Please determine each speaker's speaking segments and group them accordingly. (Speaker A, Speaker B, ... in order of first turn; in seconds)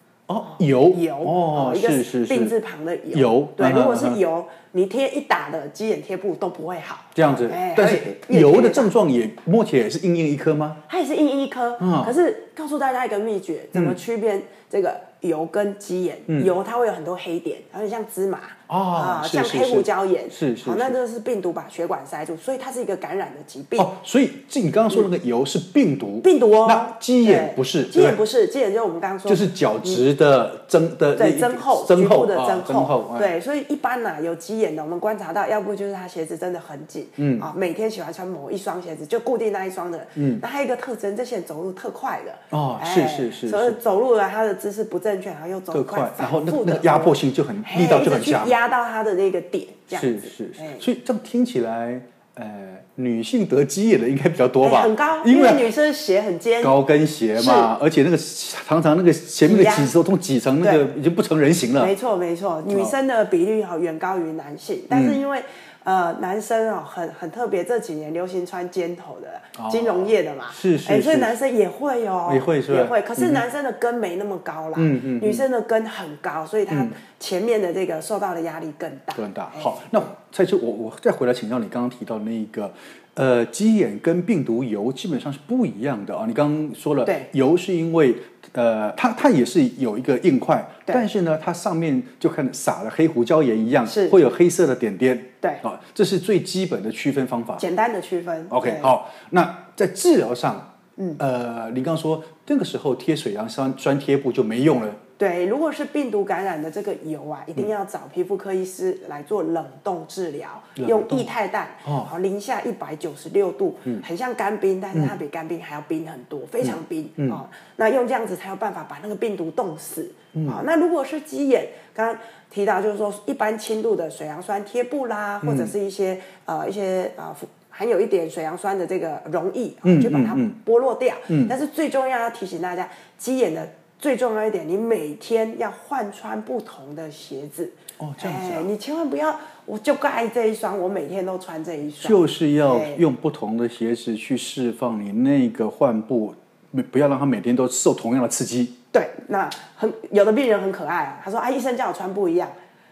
Speaker A: 0.3-2.6, 3.1-4.2, 7.2-10.8, 11.8-12.1, 16.3-16.5, 18.7-21.0, 23.8-28.2, 29.3-33.3, 37.2-37.5, 40.2-40.4, 42.5-43.8, 45.7-48.6, 49.9-55.7, 56.6-62.0, 64.9-65.2, 69.6-71.3, 72.3-73.4, 74.8-75.5, 76.7-77.0, 79.2-97.6, 98.5-100.7, 101.2-105.0, 110.8-111.3, 111.8-112.1, 116.6-117.4, 120.3-120.6, 125.4-125.7, 129.8-130.6, 131.3-131.5, 138.0-138.7, 142.0-148.8
Speaker B: 0.5-8.9, 10.9-23.9, 26.2-30.1, 31.1-50.9, 54.6-56.8, 57.4-57.7, 59.4-59.9, 60.6-60.9, 61.8-79.9, 93.9-94.2, 97.6-98.9, 105.2-143.0, 148.9-152.6